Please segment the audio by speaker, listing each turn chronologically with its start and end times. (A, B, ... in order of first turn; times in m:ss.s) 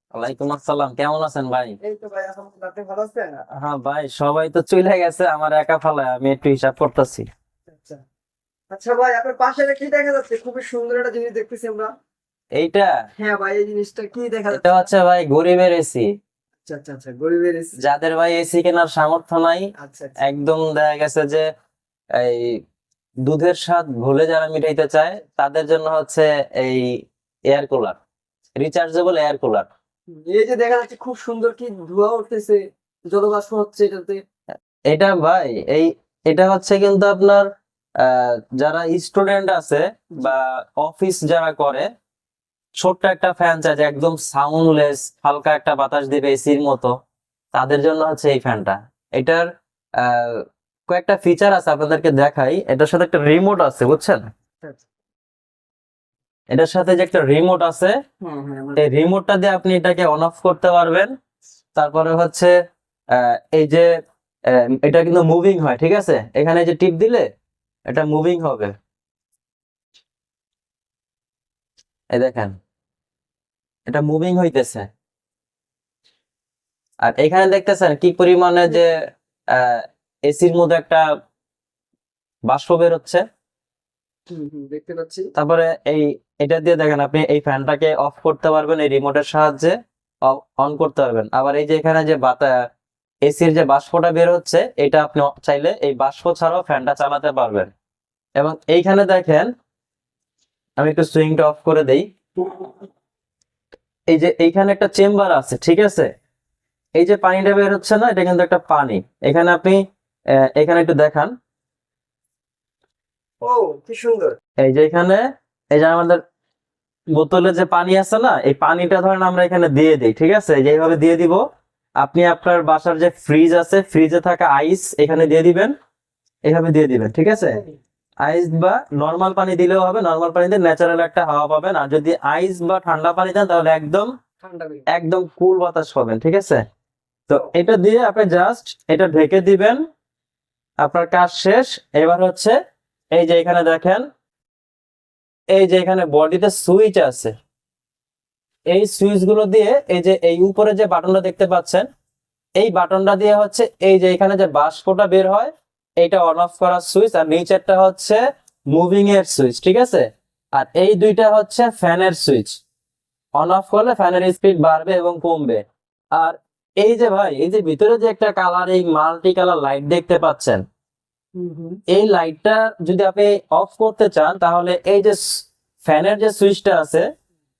0:00.1-0:01.8 A
0:01.8-0:03.4 B
0:03.6-0:07.3 A
0:07.7-0:08.0 B
0:08.7-0:11.9 B
0:12.6-0:12.9 A
0:13.2-0:14.9 B
0:14.5-0:16.1 A
0:16.6-0:17.7 B
0:17.8-0:21.4 A
0:19.8-0:20.2 B
0:22.2-0:22.6 A
0:23.2-0:26.9 A
0:27.5-0:28.0 A
0:28.6-0:29.7 A
0:30.1-0:34.2 B
0:34.9-0:37.4 A
0:38.0-0:41.9 A
0:42.8-0:46.9 A
0:47.5-0:49.5 A
0:50.0-0:54.2 A
0:56.5-0:58.0 A
0:58.2-0:58.8 B
0:58.8-1:01.1 A
1:01.7-1:02.5 A
1:03.1-1:03.9 A
1:04.5-1:07.3 A
1:07.9-1:08.7 A
1:12.1-1:12.6 A
1:13.9-1:14.9 A
1:17.0-1:21.0 A
1:22.5-1:23.2 A
1:24.3-1:25.3 B
1:25.4-1:32.6 A
1:33.2-1:37.7 A
1:38.4-1:39.5 A
1:40.8-1:42.6 A
1:44.1-1:46.1 A
1:47.0-1:51.3 A
1:53.4-1:54.4 B
1:54.6-1:56.2 A
1:57.1-2:01.4 A
2:02.0-2:05.7 A
2:06.4-2:07.6 A
2:08.2-2:14.1 A
2:14.4-2:14.8 B
2:14.9-2:16.6 A
2:17.3-2:19.8 A
2:20.8-2:22.6 A
2:23.1-2:24.0 A
2:25.5-2:27.3 A
2:28.7-2:31.9 A
2:32.6-2:42.6 A
2:43.4-2:45.6 A
2:46.1-2:50.6 A
2:51.4-2:51.8 B
2:51.9-2:57.0 A